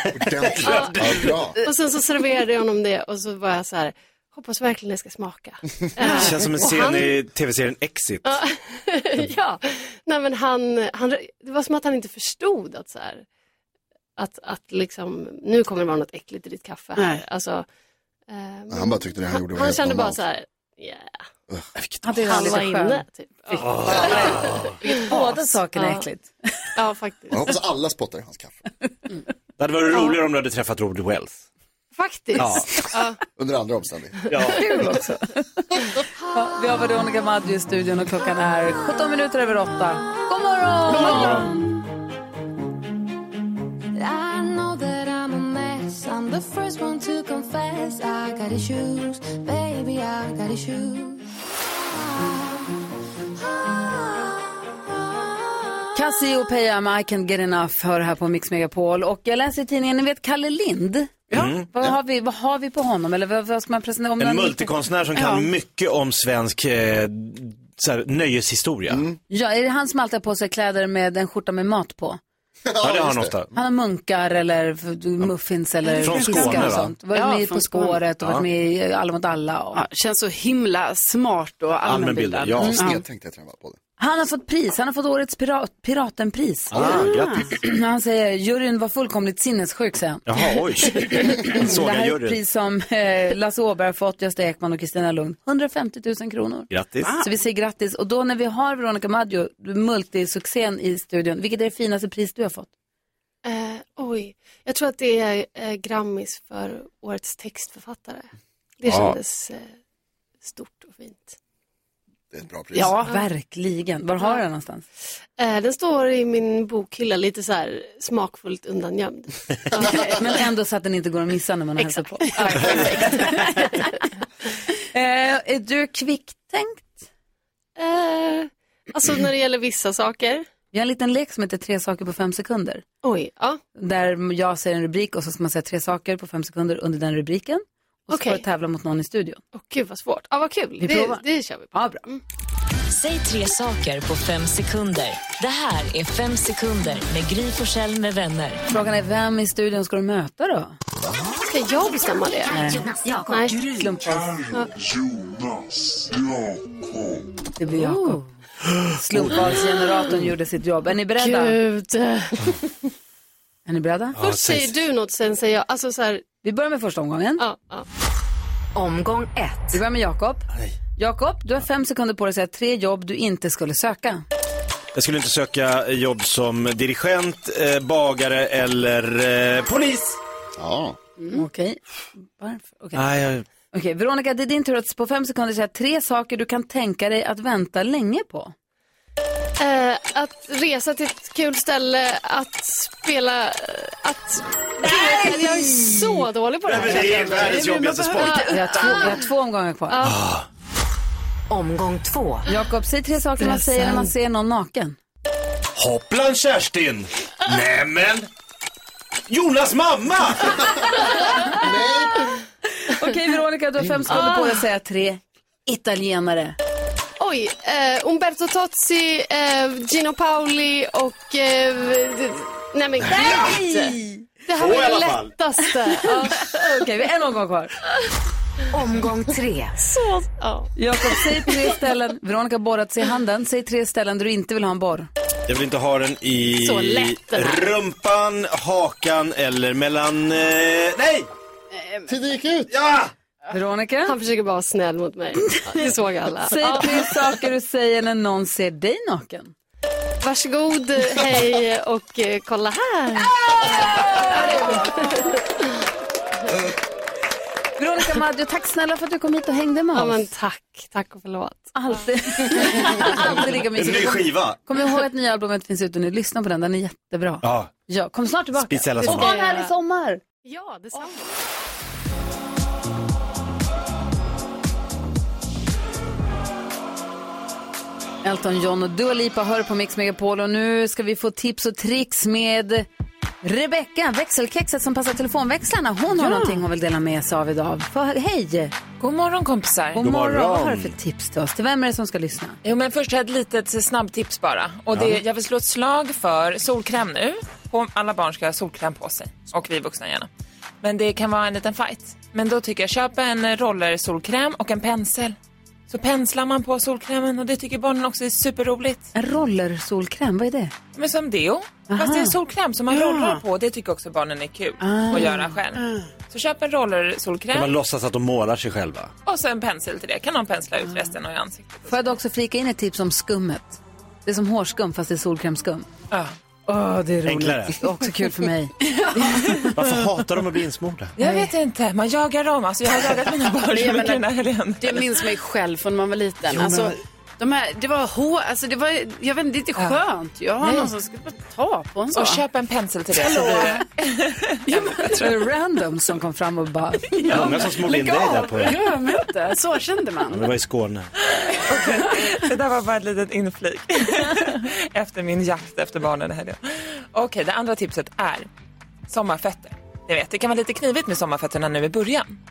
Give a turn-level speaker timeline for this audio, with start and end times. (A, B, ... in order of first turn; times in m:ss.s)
0:00.1-0:01.6 A
0:00.6-0:07.1 B
0:00.6-0:01.2 C
0:06.0-0:06.7 D
0:06.0-0:08.4 C
0:08.2-0:13.2 B
0:14.2-0:17.6 B
0:17.0-0:17.2 D
0:18.3-0:21.2 B
0:18.7-0:20.2 A
0:21.8-0:22.3 C
0:22.0-0:24.3 E
0:22.1-0:26.1 B
0:23.6-0:24.8 C
0:24.8-0:26.3 E
0:26.8-0:27.5 B
0:27.3-0:28.6 A
0:29.6-0:31.4 C
0:31.9-0:33.2 B
0:32.4-0:32.9 C
0:33.3-0:34.3 A
0:34.3-0:34.8 C
0:34.5-0:35.6 E
0:36.3-0:41.5 E
0:40.8-0:41.5 F
0:41.1-0:41.4 C
0:43.9-0:51.2 F
0:51.9-0:52.6 F
0:53.4-0:55.8 F
0:55.9-1:04.7 E
1:01.3-1:01.7 C
1:04.2-1:09.0 C
1:05.1-1:05.5 D
1:08.9-1:09.2 A
1:09.3-1:12.2 E
1:12.6-1:13.4 A
1:12.8-1:13.5 C
1:13.5-1:19.8 E
1:15.8-1:18.0 D
1:16.0-1:16.9 C
1:19.7-1:23.0 D
1:21.8-1:22.8 C
1:22.7-1:23.8 A
1:24.0-1:42.7 E
1:26.7-1:27.5 C
1:26.8-1:27.4 D
1:30.2-1:32.4 C
1:36.7-1:37.1 C
1:43.4-1:48.3 B
1:48.8-1:49.7 B
1:48.8-1:49.2 C
1:50.4-1:51.4 B
1:52.3-1:53.0 A
1:52.7-1:53.2 D
1:53.0-1:54.8 E
1:55.4-2:00.4 B
2:00.0-2:03.9 E
2:01.8-2:04.0 B
2:04.9-2:07.1 E
2:07.8-2:10.4 B
2:10.7-2:12.8 E
2:13.0-2:13.6 B
2:13.8-2:19.4 E
2:18.1-2:18.4 B
2:19.5-2:22.2 B
2:20.8-2:22.0 E
2:22.9-2:28.6 G
2:28.7-2:30.8 E
2:31.5-2:33.6 B
2:32.5-2:32.9 E
2:32.7-2:33.4 G
2:33.6-2:34.3 E
2:34.5-2:34.7 B
2:37.6-2:38.3 E
2:37.8-2:38.2 D
2:38.9-2:41.6 E
2:39.2-2:39.6 C
2:41.2-2:42.5 B
2:43.6-2:44.2 E
2:44.2-2:44.7 C
2:44.2-2:46.2 B
2:46.4-2:47.4 E
2:47.4-2:47.8 B
2:48.7-2:49.8 G
2:49.7-2:50.4 E
2:51.0-2:54.2 E
2:54.9-3:00.2 C
3:00.6-3:01.0 A
3:01.3-3:03.0 E
3:02.9-3:03.4 C
3:03.7-3:08.5 E
3:09.6-3:19.2 B
3:14.9-3:15.7 E
3:16.6-3:18.4 C
3:16.8-3:19.2 D
3:18.4-3:20.0 E
3:19.9-3:20.2 B
3:20.0-3:20.4 C
3:21.5-3:22.4 G
3:22.5-3:25.0 E
3:23.4-3:24.1 D
3:25.8-3:28.3 C
3:29.3-3:30.6 C
3:30.8-3:32.3 A
3:32.9-3:36.6 E
3:34.1-3:34.6 B
3:37.2-3:46.6 B
3:43.1-3:44.2 E
3:43.2-3:43.6 C
3:44.6-3:45.4 C
3:46.1-3:47.7 E
3:48.7-3:49.8 G
3:49.8-3:51.5 B
3:50.8-3:55.1 E
3:55.5-4:01.3 C
3:56.6-3:57.6 B
4:01.7-4:02.1 D
4:02.1-4:02.7 A
4:02.7-4:03.1 C
4:03.5-4:04.2 E
4:04.0-4:07.2 B
4:05.6-4:05.9 E
4:06.4-4:09.5 E
4:10.2-4:15.4 B
4:17.8-4:20.3 E
4:19.9-4:22.9 B
4:21.7-4:30.2 E
4:23.7-4:24.6 C
4:27.4-4:27.7 C
4:28.5-4:29.4 C
4:29.0-4:29.7 B
4:30.4-4:31.3 B
4:38.2-4:42.9 E
4:43.4-4:48.8 E
4:46.1-4:46.6 D
4:49.0-4:50.0 H
4:50.0-4:52.6 E
4:50.0-4:50.9 C
4:52.6-5:00.3 H
4:54.9-4:55.2 C
5:00.8-5:05.4 H
5:05.9-5:09.1 H
5:09.1-5:10.7 E
5:10.9-5:17.7 H
5:11.9-5:12.4 E
5:12.9-5:13.4 D
5:14.8-5:15.6 E
5:15.1-5:16.1 D
5:17.5-5:19.1 C
5:19.2-5:22.1 H
5:21.9-5:25.9 E
5:26.7-5:28.7 E
5:27.2-5:27.8 C
5:28.8-5:29.6 D
5:29.7-5:31.1 C
5:31.2-5:35.1 H
5:31.2-5:31.5 E
5:33.6-5:34.3 D
5:34.8-5:42.4 D
5:36.5-5:37.0 C
5:39.8-5:40.0 H
5:40.6-5:40.9 H
5:42.1-5:45.3 H
5:43.1-5:43.9 D
5:44.7-5:45.2 D
5:45.1-5:47.2 E
5:47.2-5:50.5 D
5:47.3-5:48.8 C
5:50.3-5:51.1 C
5:51.6-5:58.5 H
5:51.7-5:52.3 D
5:59.1-6:02.4 H